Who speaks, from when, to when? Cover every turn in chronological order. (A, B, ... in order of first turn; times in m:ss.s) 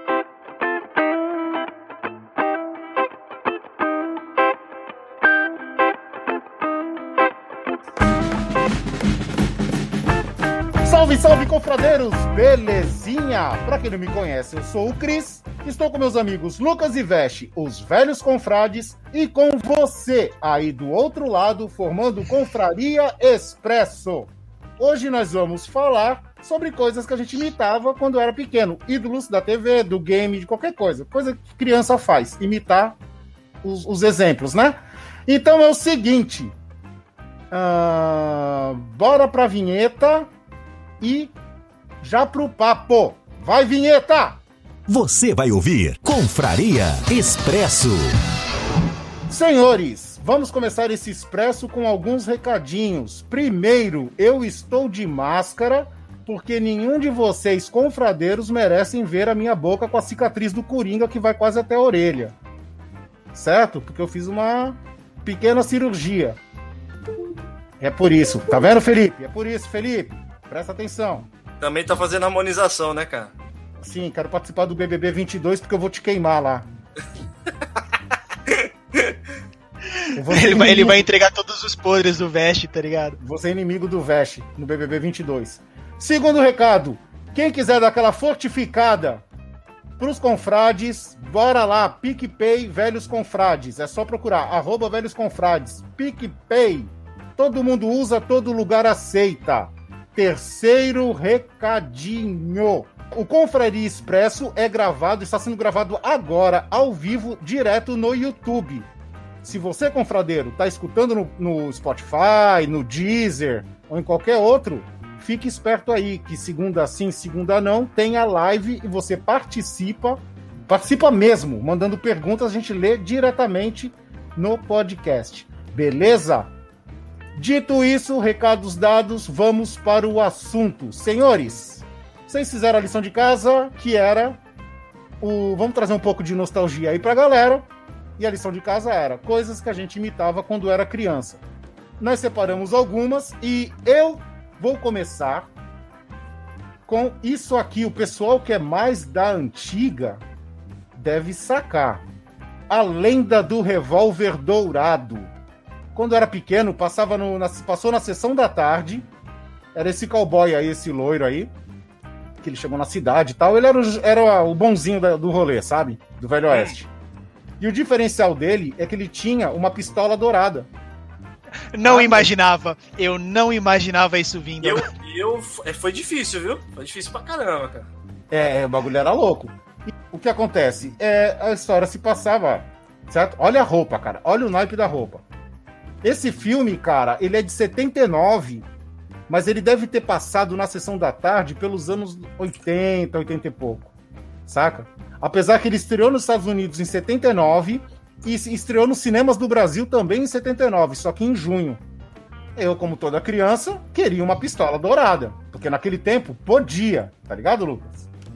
0:10.8-0:33.0 A
0:33.6-0:36.6 A
0:37.5-0:40.3 A
0:41.0-0:41.4 A
0:42.0-0:44.4 A
0:44.9-0:48.1 B
0:49.3-1:02.4 A
1:03.3-1:06.4 A
1:07.8-1:11.3 A
1:11.6-1:13.3 C
1:13.8-1:16.7 A
1:18.5-1:19.2 C
1:20.0-1:23.2 D
1:20.2-1:21.0 A
1:23.2-1:29.2 A
1:30.0-1:48.9 A
1:49.4-2:06.5 A
2:07.4-2:14.4 A
2:15.2-2:17.7 A
2:18.2-2:21.4 A
2:22.0-2:25.5 A
2:26.9-2:30.2 A
2:30.9-2:32.0 A
2:32.7-2:35.3 A
2:36.0-2:39.1 A
2:39.7-2:41.5 A
2:42.4-2:46.9 A
2:46.5-2:46.8 C
2:47.6-2:50.7 A
2:51.7-2:54.9 D
2:51.8-2:52.3 A
2:54.6-2:57.9 C
2:58.3-3:05.2 A
3:06.0-3:08.7 A
3:09.3-3:13.9 A
3:14.5-3:21.8 A
3:22.6-3:28.1 A